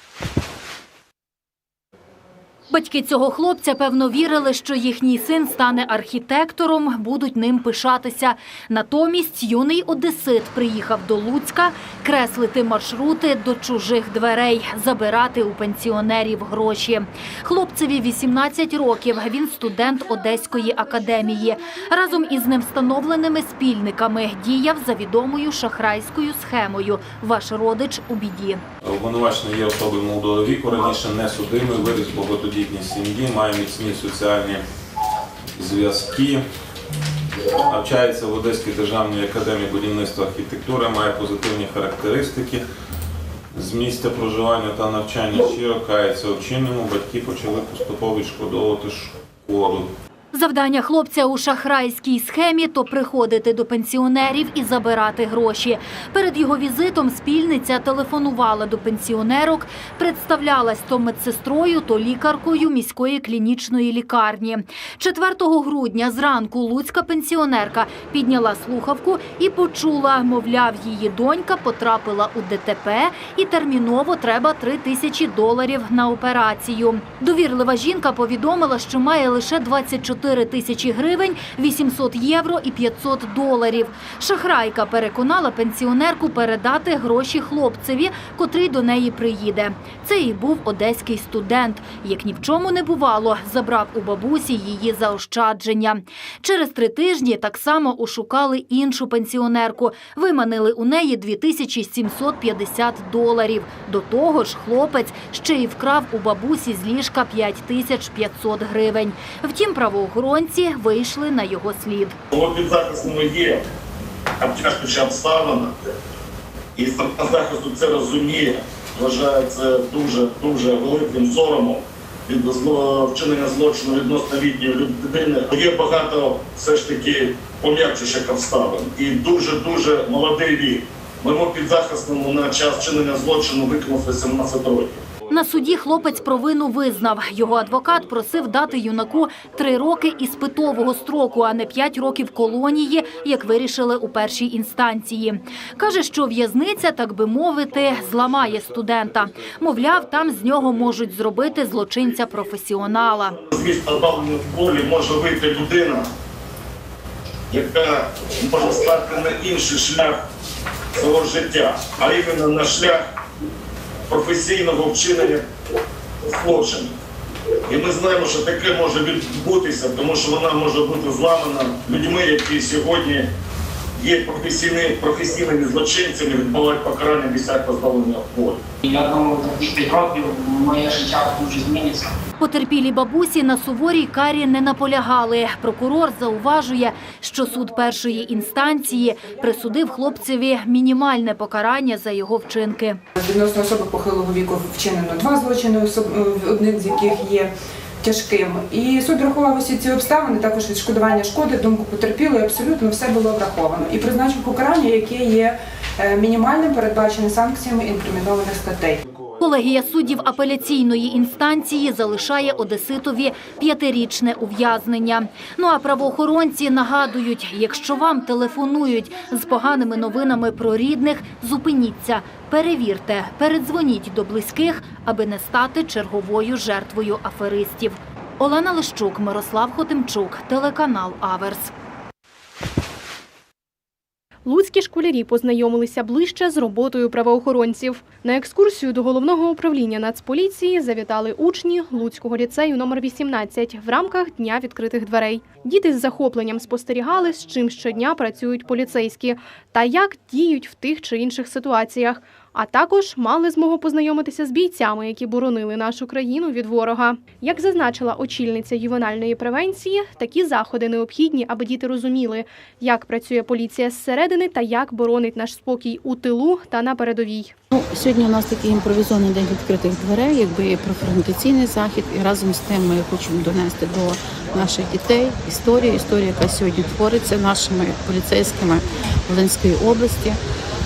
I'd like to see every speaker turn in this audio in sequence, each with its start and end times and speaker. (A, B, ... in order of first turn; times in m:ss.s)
0:02.7-0:28.6 A
0:28.8-0:34.6 B
0:35.6-0:36.4 B
0:37.7-0:42.6 B
0:43.5-0:49.9 B
0:50.3-1:52.2 A
1:52.3-1:53.6 C
1:54.4-1:55.7 C
1:56.8-2:15.0 C
2:15.3-2:33.4 A
2:33.4-2:36.0 C
2:37.5-2:40.2 C
2:41.0-2:43.0 C
2:44.1-2:45.4 C
2:46.2-2:46.9 C
2:47.7-2:53.3 C
2:54.0-2:58.6 C
2:58.8-3:02.1 D
3:02.4-3:13.0 A
3:13.2-3:29.0 E
3:29.4-3:51.7 A
3:54.4-4:27.5 F
4:27.7-4:40.4 G